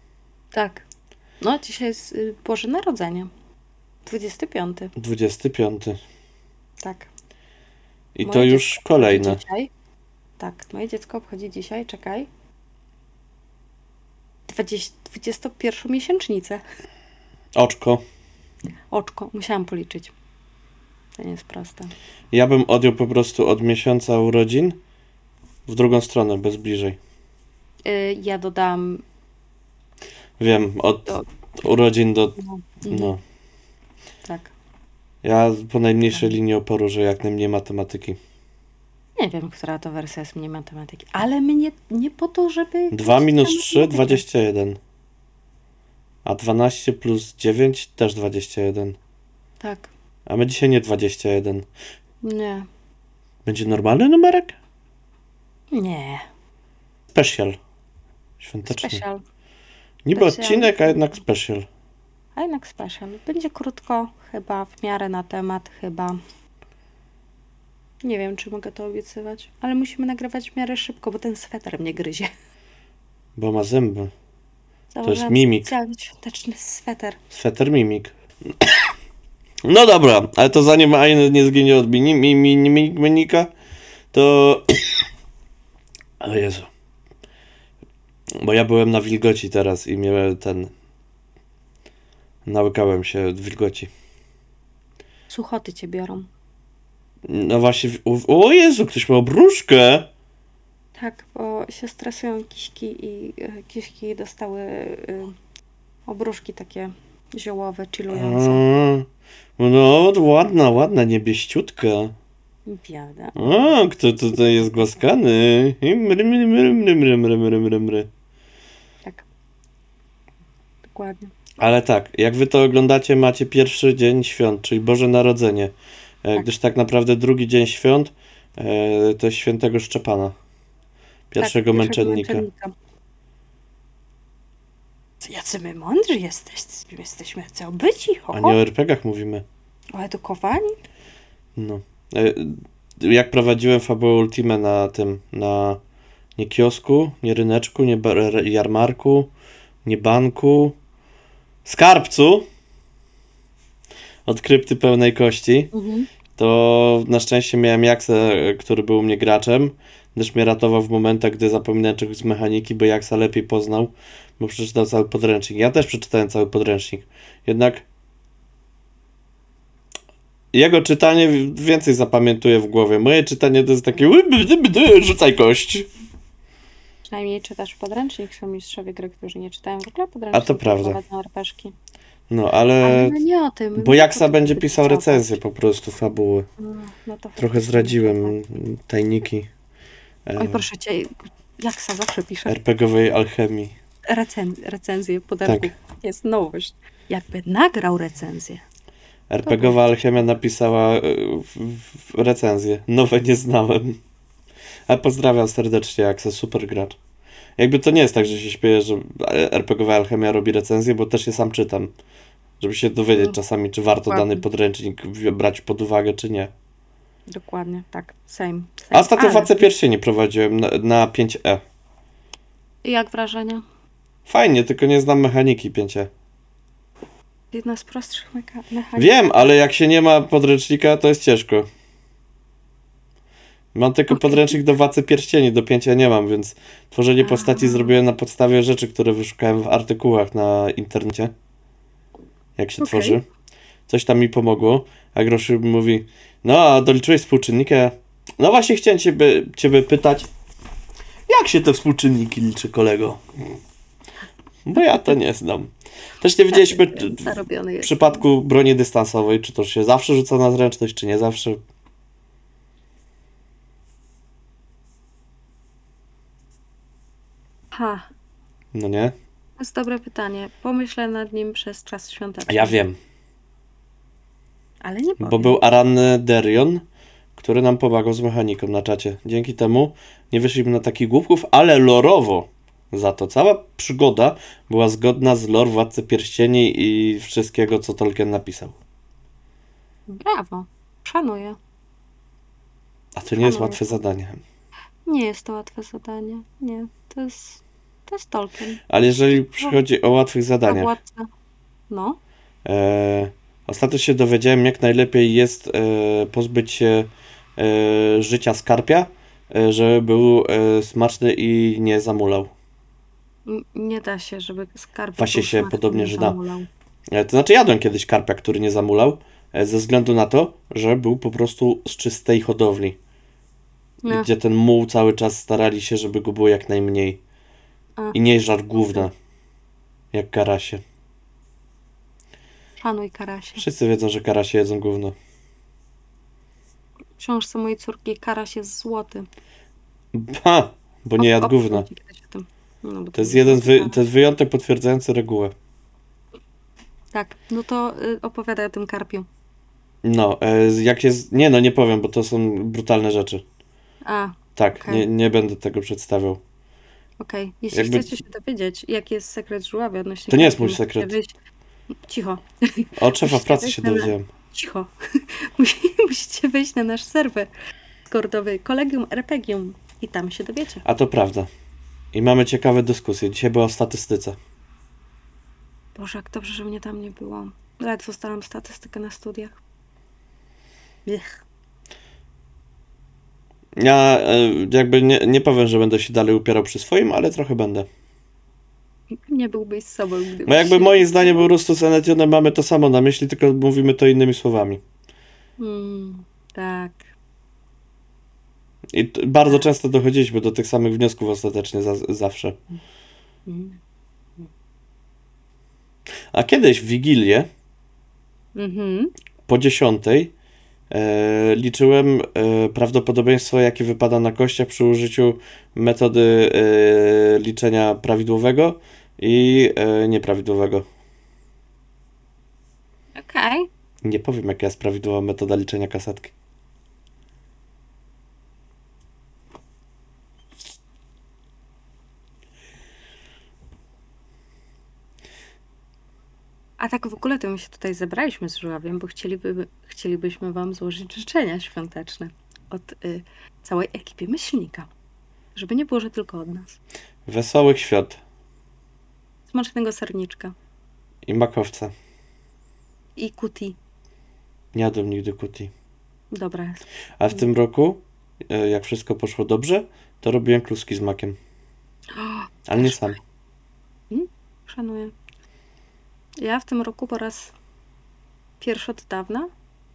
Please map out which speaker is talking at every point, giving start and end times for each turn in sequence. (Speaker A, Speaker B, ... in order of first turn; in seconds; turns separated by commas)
Speaker A: 0.5-0.8, Speaker A: 1.4-3.3, Speaker A: 4.1-4.9, Speaker B: 5.0-6.0, Speaker A: 6.8-7.1, Speaker B: 8.2-9.4, Speaker A: 8.2-9.7, Speaker A: 10.4-12.3, Speaker A: 14.5-16.6, Speaker B: 17.6-18.0, Speaker A: 18.9-20.1, Speaker A: 21.2-21.9, Speaker B: 22.3-24.8, Speaker B: 25.7-27.0, Speaker A: 27.9-29.0, Speaker B: 30.4-31.1, Speaker B: 31.6-32.4, Speaker A: 32.4-33.1, Speaker B: 32.9-33.2, Speaker A: 34.2-34.5, Speaker B: 35.2-38.2, Speaker A: 36.1-36.4, Speaker A: 39.2-44.2, Speaker B: 42.9-44.8, Speaker B: 46.2-49.0, Speaker A: 49.6-49.9, Speaker B: 50.3-51.7, Speaker A: 52.2-52.7, Speaker B: 53.5-54.6, Speaker A: 55.7-56.2, Speaker B: 57.1-57.6, Speaker B: 58.4-59.0, Speaker A: 58.7-59.2, Speaker B: 60.0-61.7, Speaker A: 60.1-61.0, Speaker A: 62.4-66.2, Speaker A: 68.0-72.3, Speaker B: 73.4-74.1, Speaker A: 74.9-77.2, Speaker B: 75.0-75.7, Speaker B: 77.3-78.7, Speaker B: 79.7-83.5, Speaker B: 84.1-85.0, Speaker B: 86.2-86.7, Speaker B: 88.4-90.7, Speaker B: 92.5-93.9, Speaker A: 95.3-96.3, Speaker B: 97.3-100.1, Speaker A: 101.0-105.3, Speaker A: 106.1-108.6, Speaker B: 108.1-109.1, Speaker B: 109.6-112.1, Speaker A: 112.7-113.7, Speaker B: 113.4-118.1, Speaker A: 120.8-121.3, Speaker B: 121.6-130.3, Speaker B: 131.3-132.4, Speaker A: 131.4-132.7, Speaker A: 135.2-138.6, Speaker B: 138.3-139.4, Speaker A: 139.9-140.8, Speaker B: 141.6-145.8, Speaker B: 146.4-149.3, Speaker B: 149.8-150.8, Speaker B: 151.7-152.5, Speaker B: 154.3-155.7, Speaker A: 155.7-156.1, Speaker B: 156.4-167.8, Speaker B: 170.5-175.9, Speaker A: 177.1-181.7, Speaker B: 180.3-181.0, Speaker B: 182.3-183.2, Speaker A: 182.8-185.4, Speaker B: 183.8-186.5, Speaker A: 186.6-188.4, Speaker B: 187.4-189.5, Speaker B: 190.3-190.7, Speaker A: 190.4-192.6, Speaker B: 192.5-193.8, Speaker A: 194.1-198.6, Speaker B: 195.4-195.7, Speaker B: 199.3-204.0, Speaker A: 199.4-199.9, Speaker B: 204.9-207.0, Speaker B: 207.6-211.9, Speaker B: 212.6-216.5, Speaker A: 214.1-214.4, Speaker A: 217.3-219.7, Speaker B: 218.9-221.6, Speaker A: 222.8-223.6, Speaker B: 224.3-226.1, Speaker A: 227.5-229.6, Speaker B: 229.0-231.7, Speaker B: 233.7-241.3, Speaker A: 234.1-234.6, Speaker A: 237.2-237.9, Speaker B: 242.6-243.2, Speaker A: 242.8-243.2, Speaker B: 243.9-250.3, Speaker B: 251.3-253.2, Speaker B: 254.7-261.6, Speaker A: 254.8-255.1, Speaker A: 256.5-258.2, Speaker A: 267.7-268.1, Speaker B: 268.7-269.1, Speaker A: 269.6-272.8, Speaker B: 272.5-273.0, Speaker A: 274.8-275.6, Speaker B: 275.2-276.9, Speaker B: 277.4-288.8, Speaker A: 290.1-291.6, Speaker B: 293.2-294.4, Speaker A: 293.3-294.0, Speaker A: 295.1-298.8, Speaker B: 298.9-300.9, Speaker A: 299.4-299.8, Speaker A: 300.6-301.3, Speaker A: 301.9-302.2, Speaker B: 302.6-312.5, Speaker A: 313.5-316.7, Speaker B: 315.2-316.4, Speaker B: 317.1-323.0, Speaker A: 324.0-324.3, Speaker B: 324.1-327.2, Speaker B: 328.1-329.1, Speaker A: 328.8-329.1, Speaker B: 330.1-330.8, Speaker A: 332.8-333.7, Speaker B: 333.6-335.1, Speaker A: 337.2-339.3, Speaker B: 340.1-341.9, Speaker A: 341.2-344.0, Speaker B: 343.1-345.5, Speaker A: 347.1-349.3, Speaker B: 350.0-353.4, Speaker A: 354.1-355.1, Speaker B: 354.6-356.4, Speaker A: 357.2-361.3, Speaker B: 357.7-358.2, Speaker B: 360.3-361.1, Speaker A: 362.1-367.5, Speaker B: 363.0-364.3, Speaker A: 368.1-370.8, Speaker B: 370.9-371.5, Speaker B: 372.1-374.4, Speaker A: 376.0-379.6, Speaker A: 381.1-381.4, Speaker B: 383.8-387.9, Speaker A: 389.3-391.5, Speaker B: 390.5-394.8, Speaker A: 395.6-397.0, Speaker B: 398.9-402.6, Speaker A: 403.5-403.8, Speaker B: 406.3-407.5, Speaker A: 408.6-409.1, Speaker B: 409.5-410.3, Speaker B: 410.9-420.9, Speaker A: 423.2-423.7, Speaker B: 424.0-426.3, Speaker A: 436.8-444.9, Speaker A: 445.6-446.8, Speaker B: 447.3-448.2, Speaker A: 449.5-450.5, Speaker B: 451.3-451.9, Speaker A: 453.2-453.8, Speaker B: 454.7-455.7, Speaker A: 456.3-457.4, Speaker B: 457.2-461.4, Speaker A: 462.1-463.1, Speaker B: 462.7-463.2, Speaker A: 464.1-465.1, Speaker A: 466.4-467.5, Speaker A: 468.6-469.5